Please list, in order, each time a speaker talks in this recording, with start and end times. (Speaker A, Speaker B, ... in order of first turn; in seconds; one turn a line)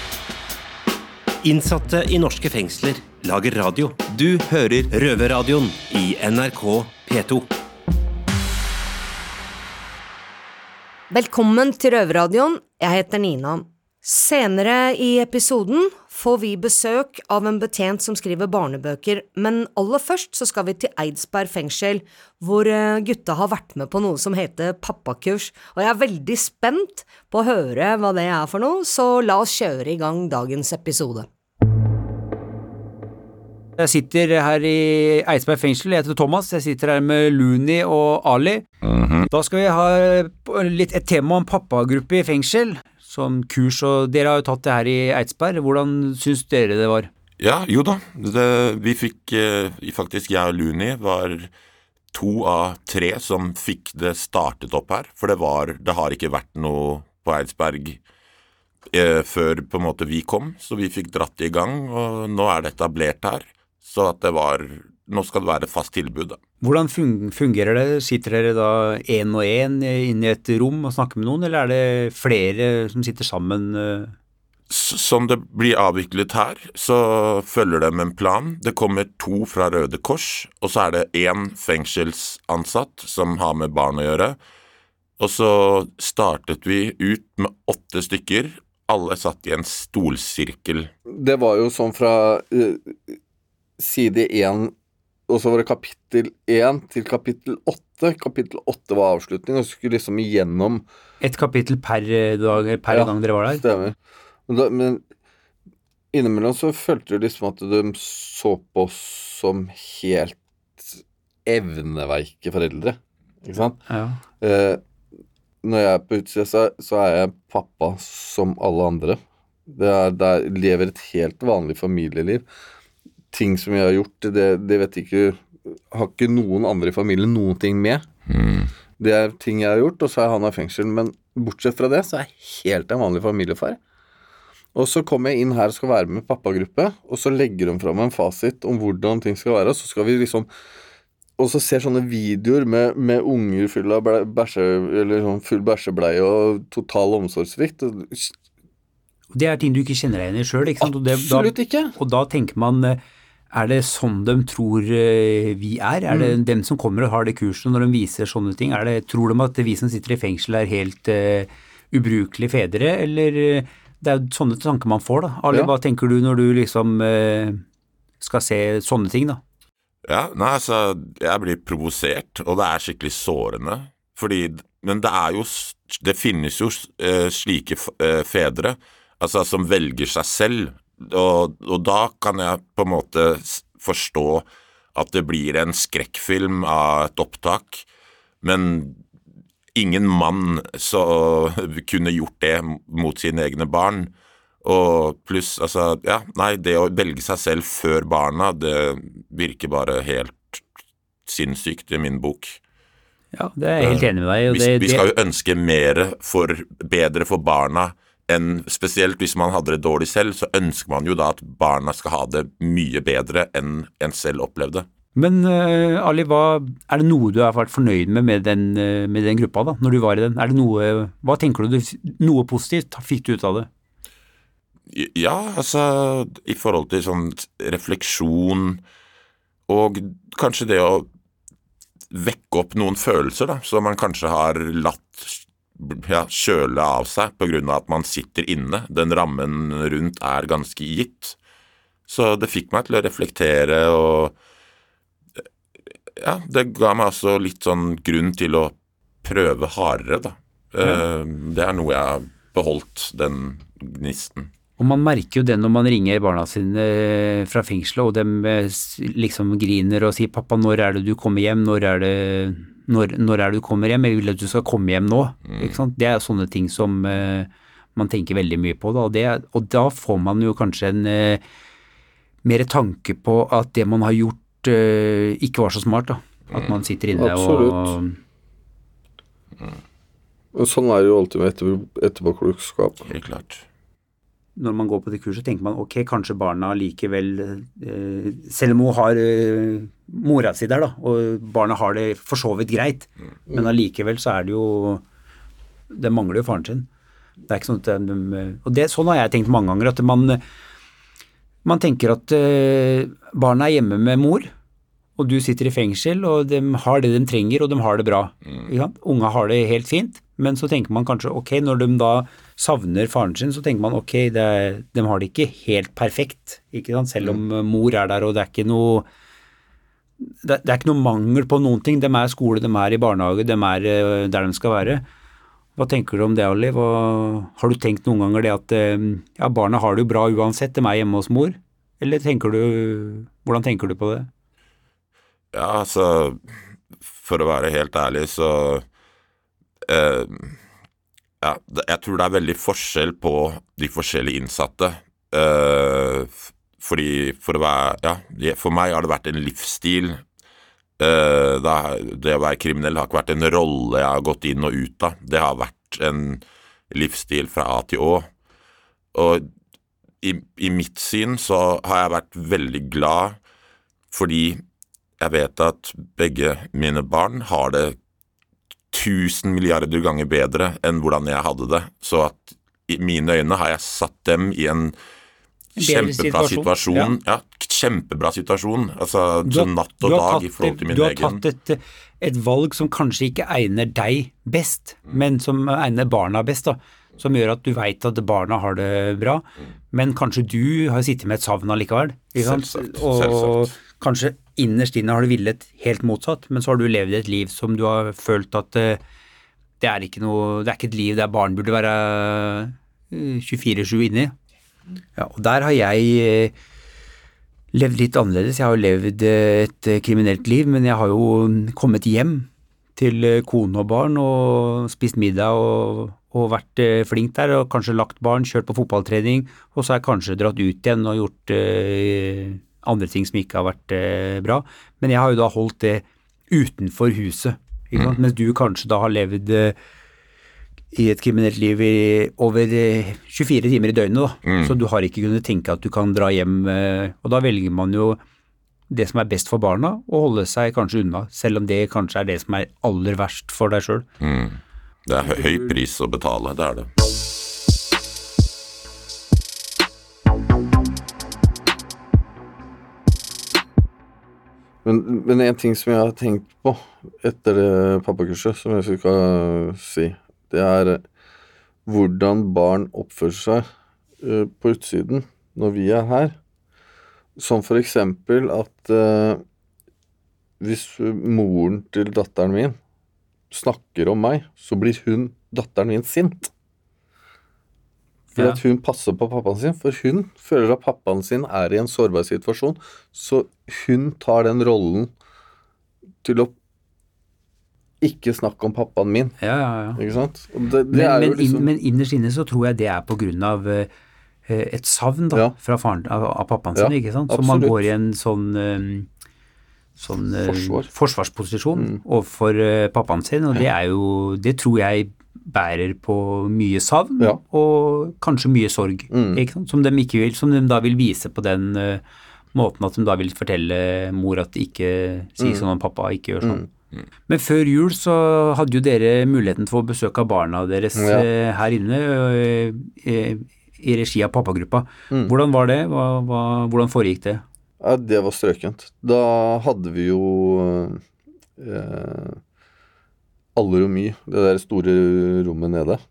Speaker A: 1.4-7.5
Speaker B: 11.1-31.3
Speaker C: 33.8-38.6
Speaker D: 38.8-39.3
Speaker C: 39.3-47.1
Speaker D: 47.4-51.5
Speaker D: 52.1-58.0
Speaker D: 58.9-66.4
Speaker C: 66.6-74.1
Speaker D: 74.7-84.4
Speaker D: 85.2-90.9
Speaker E: 91.1-93.2
Speaker E: 93.8-94.7
Speaker E: 95.3-100.8
Speaker C: 101.2-103.6
Speaker E: 102.9-104.0
Speaker E: 104.5-105.0
Speaker E: 106.1-113.8
Speaker C: 113.9-114.2
Speaker E: 114.4-114.8
Speaker E: 115.6-122.4
Speaker E: 123.3-128.1
Speaker D: 128.3-128.7
Speaker E: 129.0-133.8
Speaker E: 134.7-140.5
Speaker E: 141.4-148.3
Speaker C: 149.3-153.0
Speaker E: 150.8-151.9
Speaker C: 153.5-167.6
Speaker E: 156.1-156.3
Speaker C: 168.2-169.4
Speaker D: 170.1-187.8
Speaker D: 188.4-189.0
Speaker D: 189.7-194.1
Speaker D: 194.6-200.6
Speaker D: 201.2-202.6
Speaker C: 203.3-205.0
Speaker D: 203.8-214.9
Speaker C: 215.1-223.7
Speaker D: 224.9-228.8
Speaker D: 229.7-231.1
Speaker D: 232.1-241.3
Speaker D: 242.1-244.3
Speaker D: 246.2-254.5
Speaker C: 254.8-271.4
Speaker D: 265.5-265.7
Speaker C: 272.4-278.2
Speaker E: 277.1-277.9
Speaker E: 280.5-283.1
Speaker D: 283.1-283.6
Speaker C: 284.6-295.0
Speaker C: 295.9-296.9
Speaker C: 297.5-300.4
Speaker C: 301.6-304.5
Speaker C: 305.2-319.1
Speaker C: 320.2-325.0
Speaker C: 325.8-334.3
Speaker D: 335.5-336.4
Speaker D: 337.2-338.8
Speaker D: 339.8-340.6
Speaker D: 341.4-350.2
Speaker D: 351.0-358.3
Speaker D: 359.1-359.4
Speaker D: 360.2-363.4
Speaker D: 364.1-364.6
Speaker D: 365.2-367.9
Speaker D: 368.9-374.9
Speaker C: 375.8-377.1
Speaker D: 375.8-381.4
Speaker C: 379.4-399.0
Speaker D: 392.4-393.6
Speaker C: 399.8-404.3
Speaker C: 405.1-406.5
Speaker C: 407.7-429.8
Speaker C: 430.9-438.2
Speaker D: 434.4-434.7
Speaker C: 438.9-444.1
Speaker D: 444.2-446.9
Speaker E: 454.8-461.0
Speaker E: 461.9-463.6
Speaker E: 464.2-466.4
Speaker E: 467.4-469.4
Speaker E: 470.6-472.8
Speaker E: 473.5-476.5
Speaker E: 478.4-485.1
Speaker E: 486.2-486.5
Speaker E: 488.0-489.3
Speaker C: 489.4-490.0
Speaker E: 490.0-491.6
Speaker C: 490.9-493.9
Speaker C: 494.5-499.1
Speaker E: 496.7-497.8
Speaker C: 500.0-512.0
Speaker E: 500.4-500.9
Speaker E: 509.1-509.4
Speaker C: 512.5-516.6
Speaker C: 517.3-527.4
Speaker E: 521.0-521.3
Speaker E: 527.8-531.0
Speaker E: 531.6-532.4
Speaker E: 533.5-536.0